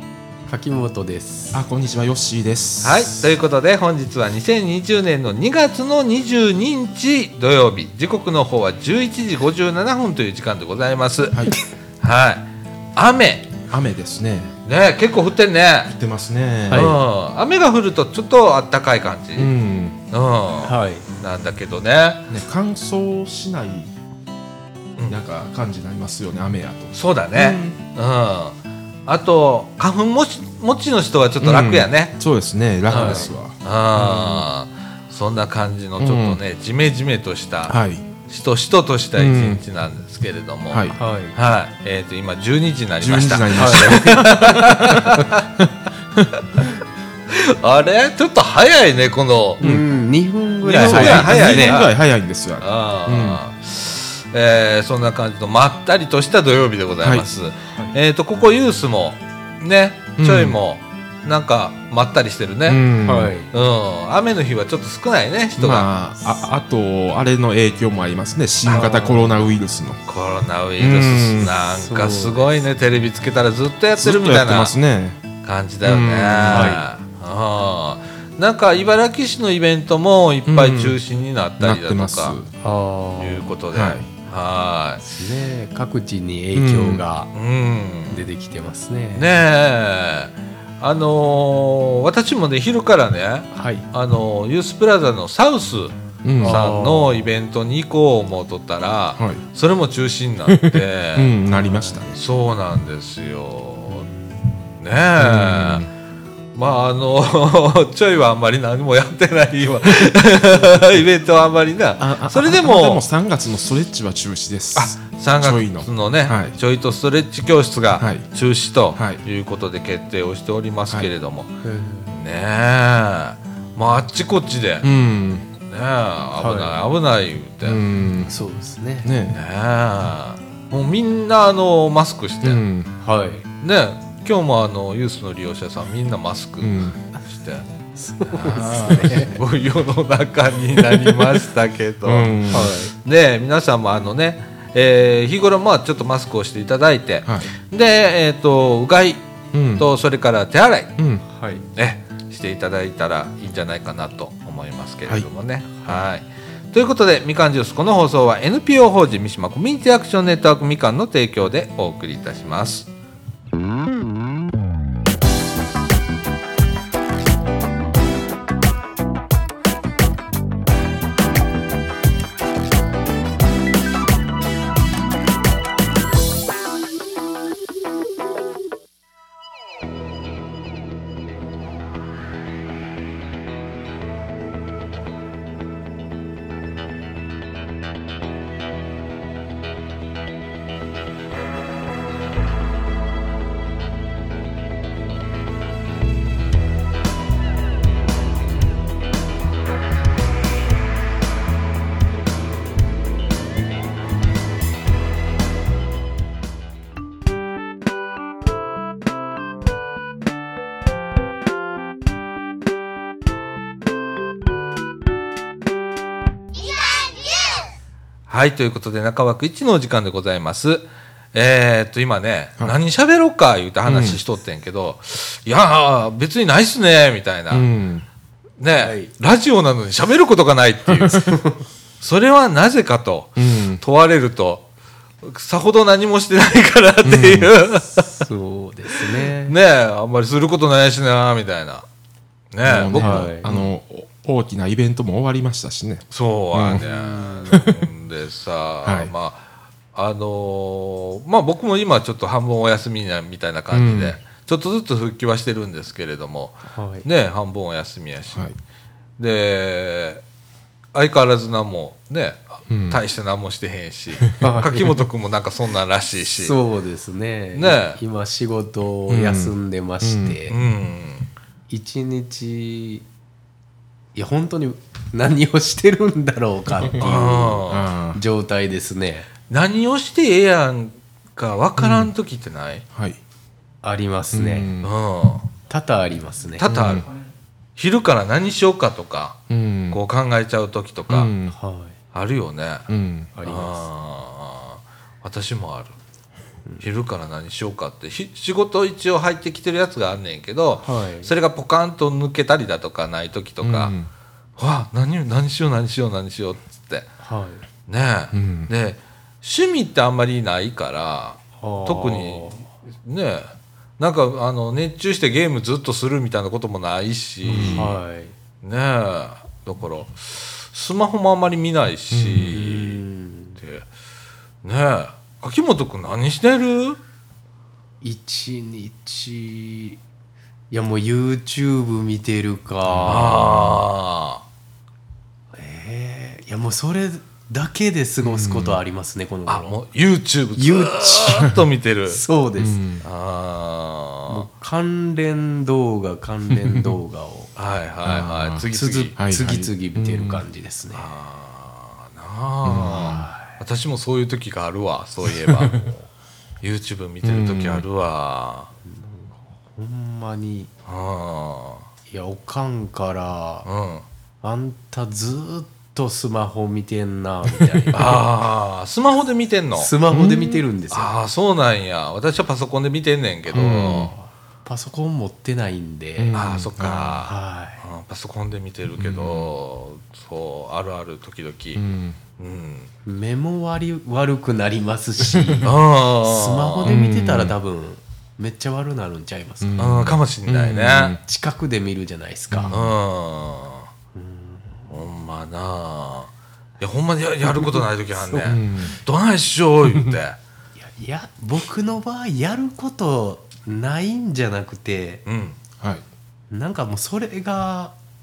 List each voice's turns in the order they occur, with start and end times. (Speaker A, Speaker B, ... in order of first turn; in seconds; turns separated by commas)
Speaker A: 0.5-1.6, Speaker B: 1.5-3.2, Speaker C: 2.8-13.5, Speaker B: 13.7-14.5, Speaker C: 14.7-15.9, Speaker B: 15.8-16.9, Speaker A: 16.7-17.0, Speaker C: 16.7-19.5, Speaker B: 19.4-20.0, Speaker C: 20.1-22.3, Speaker A: 20.6-21.1, Speaker B: 22.3-23.9, Speaker B: 25.1-27.8, Speaker C: 26.9-32.1, Speaker B: 31.4-33.6, Speaker A: 32.9-33.3, Speaker C: 32.9-45.5, Speaker A: 34.0-34.5, Speaker B: 36.0-36.4, Speaker B: 37.7-38.1, Speaker B: 39.1-39.6, Speaker B: 40.7-41.0, Speaker A: 40.9-41.4, Speaker B: 43.0-46.4, Speaker A: 43.5-44.6, Speaker C: 47.3-49.6, Speaker A: 49.6-51.8, Speaker C: 50.6-51.9, Speaker B: 50.7-53.4, Speaker C: 52.6-62.9, Speaker B: 60.2-60.6, Speaker B: 62.6-63.3, Speaker A: 63.0-63.5, Speaker C: 63.5-65.9, Speaker B: 65.6-70.0, Speaker A: 68.7-69.3, Speaker C: 70.1-74.7, Speaker B: 70.8-71.5, Speaker A: 71.7-72.4, Speaker B: 74.0-75.2, Speaker C: 75.4-82.4, Speaker B: 75.8-76.8, Speaker A: 76.5-76.8, Speaker B: 80.5-81.0, Speaker B: 81.6-82.5, Speaker A: 82.6-83.5, Speaker C: 83.2-85.0, Speaker B: 83.7-84.1, Speaker A: 85.0-87.3, Speaker B: 86.5-87.0, Speaker C: 87.3-88.3, Speaker A: 88.1-89.3, Speaker C: 89.1-101.4, Speaker A: 93.5-93.9, Speaker B: 96.2-96.7, Speaker A: 96.4-97.3, Speaker B: 99.2-99.4, Speaker B: 100.5-102.1, Speaker A: 101.5-102.1, Speaker C: 102.1-104.1, Speaker A: 103.9-104.5, Speaker C: 104.8-105.9, Speaker B: 105.2-105.9, Speaker C: 106.5-113.0, Speaker B: 112.0-116.5, Speaker C: 114.8-121.5, Speaker B: 118.0-118.2, Speaker B: 118.9-119.2, Speaker A: 121.6-122.1, Speaker C: 122.1-124.9, Speaker B: 124.8-125.5, Speaker C: 125.7-127.8, Speaker A: 126.4-126.8, Speaker B: 127.6-128.3, Speaker A: 128.3-129.1, Speaker B: 129.0-129.4, Speaker C: 129.3-132.6, Speaker B: 132.4-132.9, Speaker A: 133.0-133.4, Speaker C: 133.6-137.7, Speaker B: 136.6-137.0, Speaker A: 137.9-139.4, Speaker C: 138.3-149.2, Speaker B: 138.4-139.2, Speaker B: 142.0-142.7, Speaker A: 142.5-142.9, Speaker B: 147.2-147.5, Speaker B: 149.5-149.9, Speaker C: 149.8-150.9, Speaker B: 151.0-151.2, Speaker A: 151.3-151.6, Speaker C: 151.8-162.9, Speaker C: 218.3-227.7, Speaker B: 223.9-224.2, Speaker B: 227.5-228.1, Speaker C: 228.6-231.4, Speaker A: 228.8-229.1, Speaker C: 232.0-234.7, Speaker B: 233.4-233.8, Speaker C: 235.2-238.2, Speaker B: 237.0-237.5, Speaker A: 238.0-239.6, Speaker C: 239.3-241.8, Speaker C: 242.5-243.7, Speaker B: 242.6-246.8, Speaker A: 243.0-243.5, Speaker C: 246.1-258.5, Speaker A: 246.7-247.7, Speaker B: 247.5-247.8, Speaker B: 248.8-249.1, Speaker B: 253.7-254.2, Speaker A: 256.7-257.1, Speaker B: 258.3-258.6, Speaker C: 259.2-260.2, Speaker C: 260.9-266.6, Speaker B: 262.7-263.0, Speaker A: 264.4-265.0, Speaker A: 266.3-270.6, Speaker C: 267.5-268.0, Speaker B: 269.1-270.4, Speaker C: 270.5-271.3, Speaker A: 271.7-273.1, Speaker A: 274.1-279.3, Speaker B: 276.8-278.2, Speaker C: 277.0-277.9, Speaker C: 279.5-282.8, Speaker B: 281.8-282.1, Speaker B: 282.9-283.2, Speaker A: 283.8-284.7, Speaker B: 284.3-284.9, Speaker C: 284.8-285.5, Speaker A: 285.7-286.7, Speaker C: 286.6-287.1, Speaker B: 286.7-287.0, Speaker C: 287.8-289.4, Speaker B: 289.5-290.0, Speaker C: 289.9-291.3, Speaker B: 291.1-291.5, Speaker A: 291.5-291.9, Speaker C: 292.1-292.9, Speaker B: 292.9-293.3, Speaker A: 293.4-293.8, Speaker C: 293.4-295.9, Speaker C: 296.8-303.9, Speaker A: 300.8-301.3, Speaker B: 303.6-304.1, Speaker C: 304.6-307.1, Speaker A: 307.2-307.6, Speaker C: 307.9-312.5, Speaker B: 308.3-308.7, Speaker A: 311.6-312.6, Speaker C: 313.0-317.9, Speaker B: 317.4-317.9, Speaker A: 317.5-318.3, Speaker C: 318.6-323.0, Speaker B: 322.1-322.6, Speaker A: 322.5-323.6, Speaker C: 323.6-323.9, Speaker C: 324.6-327.0, Speaker A: 328.0-330.0, Speaker A: 330.7-333.7, Speaker B: 332.8-333.8, Speaker C: 333.1-334.4, Speaker A: 335.5-339.8, Speaker B: 338.2-338.8, Speaker C: 339.5-342.2, Speaker A: 340.6-341.5, Speaker A: 342.1-342.8, Speaker B: 342.6-343.0, Speaker C: 343.0-344.4, Speaker A: 344.3-347.5, Speaker B: 346.5-347.0, Speaker C: 347.6-349.1, Speaker B: 348.0-350.4, Speaker A: 348.7-351.1, Speaker C: 350.9-356.0, Speaker B: 352.6-353.2, Speaker A: 352.8-353.6, Speaker B: 355.3-355.9, Speaker C: 356.6-358.7, Speaker B: 357.2-357.8, Speaker A: 358.9-360.7, Speaker C: 360.9-361.9, Speaker A: 362.1-363.7, Speaker C: 363.6-364.0, Speaker A: 364.4-368.2, Speaker B: 367.6-368.1, Speaker C: 367.9-369.9, Speaker A: 369.8-371.1, Speaker B: 370.1-370.6, Speaker C: 370.9-374.1, Speaker B: 373.5-374.1, Speaker A: 374.1-376.4, Speaker B: 376.2-377.2, Speaker C: 376.3-381.8, Speaker A: 377.2-377.8, Speaker B: 379.0-379.5, Speaker B: 381.7-382.2, Speaker C: 382.4-382.9, Speaker A: 383.0-389.8, Speaker B: 385.2-385.7, Speaker C: 385.6-386.9, Speaker B: 386.8-387.5, Speaker B: 389.6-391.2, Speaker C: 389.8-391.2, Speaker A: 391.2-392.9, Speaker B: 392.5-392.8, Speaker C: 392.7-393.9, Speaker A: 394.1-394.9, Speaker C: 394.9-400.4, Speaker A: 398.1-398.6, Speaker B: 398.4-398.9, Speaker A: 400.8-405.2, Speaker C: 405.2-405.6, Speaker B: 405.8-406.0, Speaker A: 406.5-407.9